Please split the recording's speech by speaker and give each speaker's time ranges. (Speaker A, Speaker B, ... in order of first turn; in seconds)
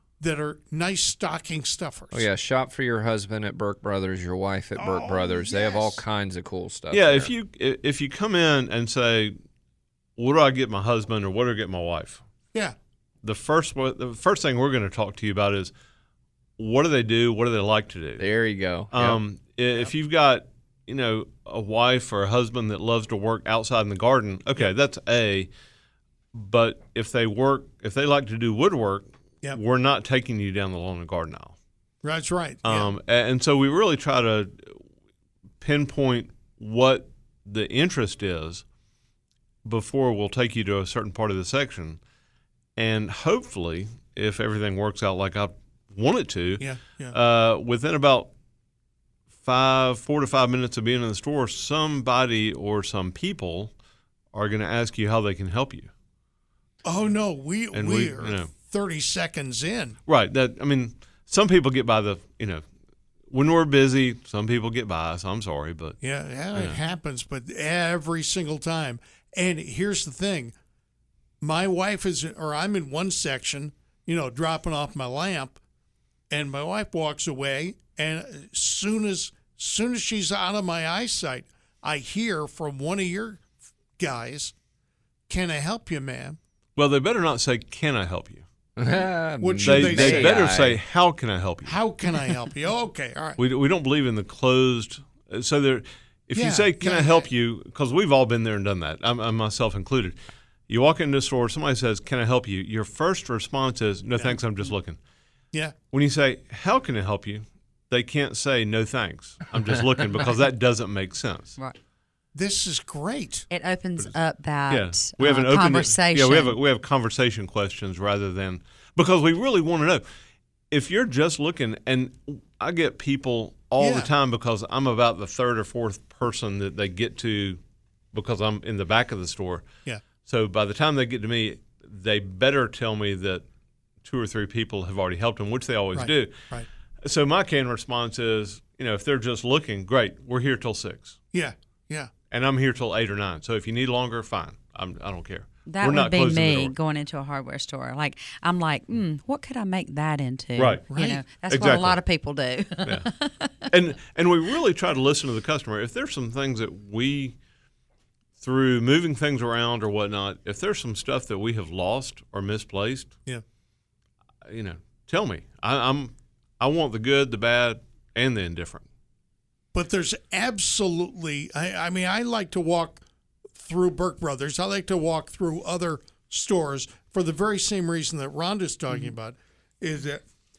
Speaker A: 0.2-2.3, 4.8-6.0, 32.0-32.9, 46.6-47.2, 56.9-60.0, 66.0-70.5, 71.4-75.6, 76.3-83.4, 84.0-84.5, 85.3-86.4, 89.4-90.4, 91.7-93.4, 96.3-97.3, 112.3-113.5, 123.8-124.1, 135.9-136.7, 141.3-142.1, 150.9-151.2, 169.7-173.0, 173.6-180.2
Speaker B: 2.1-7.3, 18.2-19.2, 88.8-90.8
Speaker C: 6.9-9.4, 10.2-12.2, 13.2-15.7, 16.6-18.2, 18.9-25.5, 26.3-31.6, 32.6-34.8, 35.6-38.6, 39.6-42.0, 42.8-48.3, 49.4-53.7, 54.3-55.9, 57.7-58.5, 60.1-62.6, 63.3-66.0, 86.8-88.5, 89.6-91.8, 93.4-100.2, 100.7-105.0, 105.9-111.6, 114.7-120.0, 120.7-127.6, 128.1-129.7, 130.2-133.4, 134.0-136.5, 137.0-141.2, 142.3-146.8, 150.6-150.8, 151.4-152.0, 152.8-153.1, 153.7-157.4, 158.4-163.2, 164.4-168.8
Speaker D: 113.5-116.5, 145.7-153.6